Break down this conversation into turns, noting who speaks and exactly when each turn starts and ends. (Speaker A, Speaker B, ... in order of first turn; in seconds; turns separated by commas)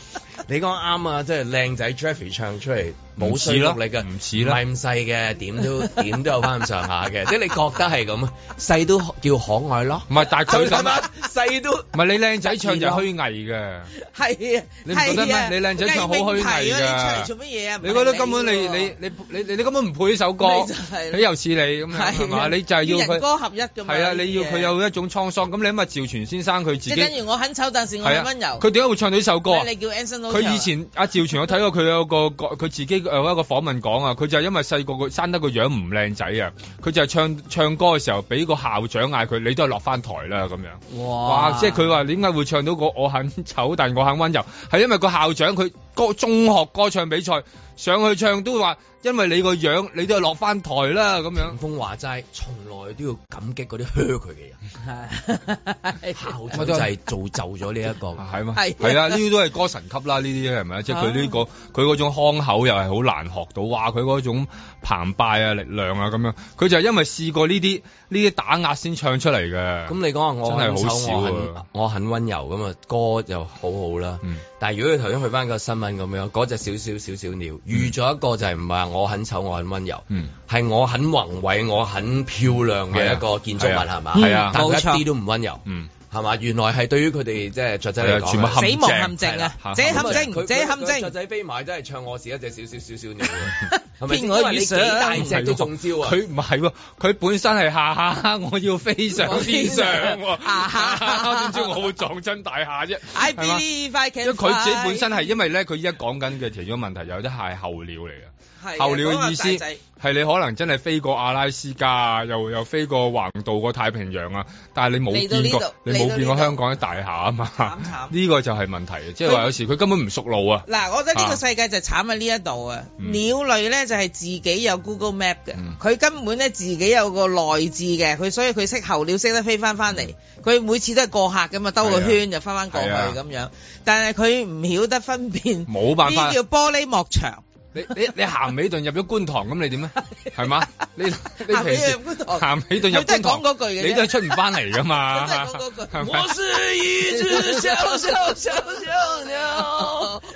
Speaker A: 0.5-11.9, Speaker B: 3.2-4.6, Speaker B: 10.1-11.1, Speaker B: 11.9-13.9, Speaker C: 14.0-18.9, Speaker B: 14.9-17.3, Speaker B: 17.8-23.2, Speaker C: 20.4-21.3, Speaker C: 21.9-24.7, Speaker B: 23.9-27.1, Speaker C: 26.9-28.7, Speaker B: 28.0-29.7, Speaker C: 29.5-30.7, Speaker B: 30.3-51.6, Speaker C: 40.9-41.9, Speaker A: 51.4-54.6, Speaker C: 54.9-56.5, Speaker A: 56.1-58.2, Speaker B: 56.5-56.9, Speaker B: 58.2-71.6, Speaker C: 58.5-59.2, Speaker C: 60.9-61.4, Speaker A: 69.9-96.2, Speaker B: 82.9-84.7, Speaker C: 84.2-85.0, Speaker B: 88.0-90.2, Speaker C: 88.6-91.1, Speaker C: 93.6-95.3, Speaker B: 95.2-103.7, Speaker C: 99.2-101.9, Speaker C: 103.1-105.4, Speaker B: 104.2-121.4, Speaker C: 108.6-109.8, Speaker C: 115.1-116.6, Speaker C: 117.6-118.2, Speaker C: 119.2-119.5, Speaker C: 120.7-137.4, Speaker B: 123.0-123.3, Speaker B: 131.8-133.2, Speaker B: 135.7-136.4, Speaker B: 137.8-146.3, Speaker C: 141.5-146.2, Speaker A: 146.0-150.2, Speaker C: 147.1-150.2